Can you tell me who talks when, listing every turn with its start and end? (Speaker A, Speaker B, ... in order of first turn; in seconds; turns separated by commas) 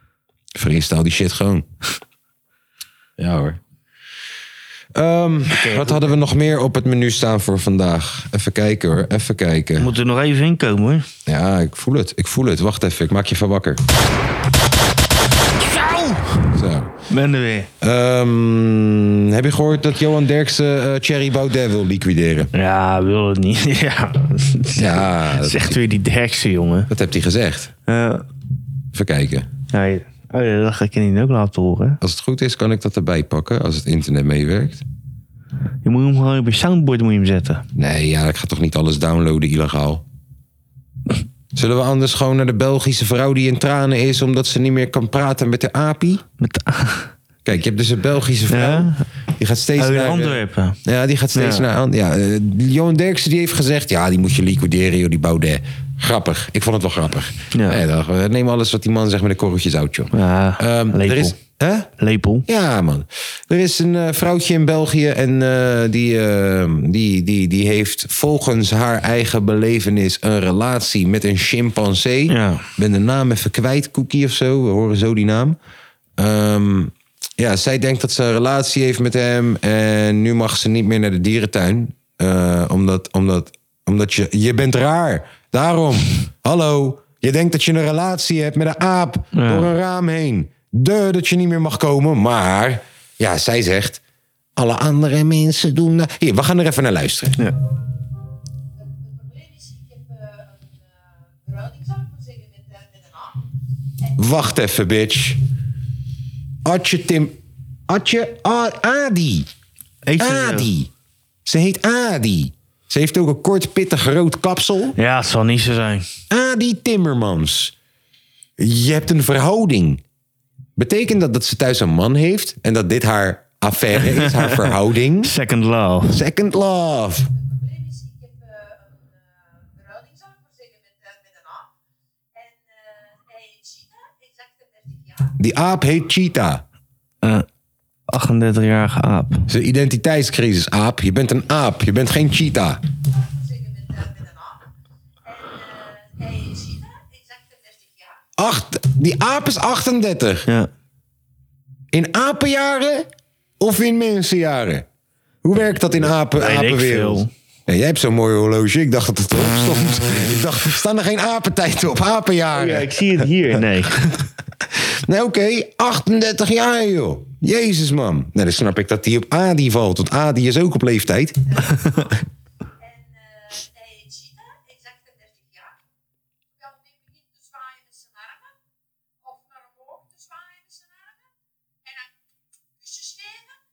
Speaker A: 0.5-1.6, Speaker A: 3.2-3.6, Speaker A: 4.9-9.9, Speaker B: 5.5-6.2, Speaker B: 9.8-11.0, Speaker A: 11.2-13.8, Speaker B: 15.6-16.3, Speaker A: 16.5-16.9, Speaker B: 17.1-17.7, Speaker A: 17.8-22.5, Speaker B: 22.5-26.9, Speaker A: 24.8-25.8, Speaker A: 26.9-27.7, Speaker B: 27.9-28.2, Speaker A: 28.9-29.5, Speaker B: 29.7-32.0, Speaker A: 32.0-34.8, Speaker B: 35.8-37.6, Speaker A: 37.8-40.0, Speaker A: 41.5-46.2, Speaker B: 46.4-47.1, Speaker A: 47.4-61.9, Speaker B: 48.5-49.0, Speaker B: 49.8-50.8, Speaker B: 51.3-51.6, Speaker B: 57.5-57.8, Speaker B: 60.1-61.4, Speaker B: 62.0-62.4, Speaker A: 62.5-75.5, Speaker B: 72.3-72.6, Speaker A: 76.2-94.0, Speaker B: 89.3-89.7, Speaker A: 94.5-97.4, Speaker C: 98.8-103.4, Speaker A: 104.2-105.4, Speaker A: 106.6-109.5, Speaker B: 110.0-110.7, Speaker A: 110.2-110.9, Speaker A: 111.4-115.0, Speaker B: 115.0-116.0, Speaker A: 116.3-117.7, Speaker A: 118.6-120.0, Speaker A: 120.8-125.3, Speaker B: 124.0-126.2, Speaker A: 126.1-127.3, Speaker C: 127.3-131.7, Speaker C: 132.3-135.3, Speaker A: 135.4-136.6, Speaker B: 138.1-139.5, Speaker A: 139.5-142.8, Speaker C: 143.1-144.6, Speaker C: 145.2-148.2, Speaker A: 148.4-150.5, Speaker A: 151.9-153.1, Speaker A: 153.6-154.8, Speaker A: 155.4-163.3, Speaker B: 156.3-157.3, Speaker B: 162.5-164.2, Speaker A: 164.7-171.4, Speaker C: 171.5-172.1, Speaker C: 172.8-175.8, Speaker C: 176.6-178.5, Speaker C: 179.2-181.3, Speaker C: 181.8-182.1, Speaker C: 182.8-183.6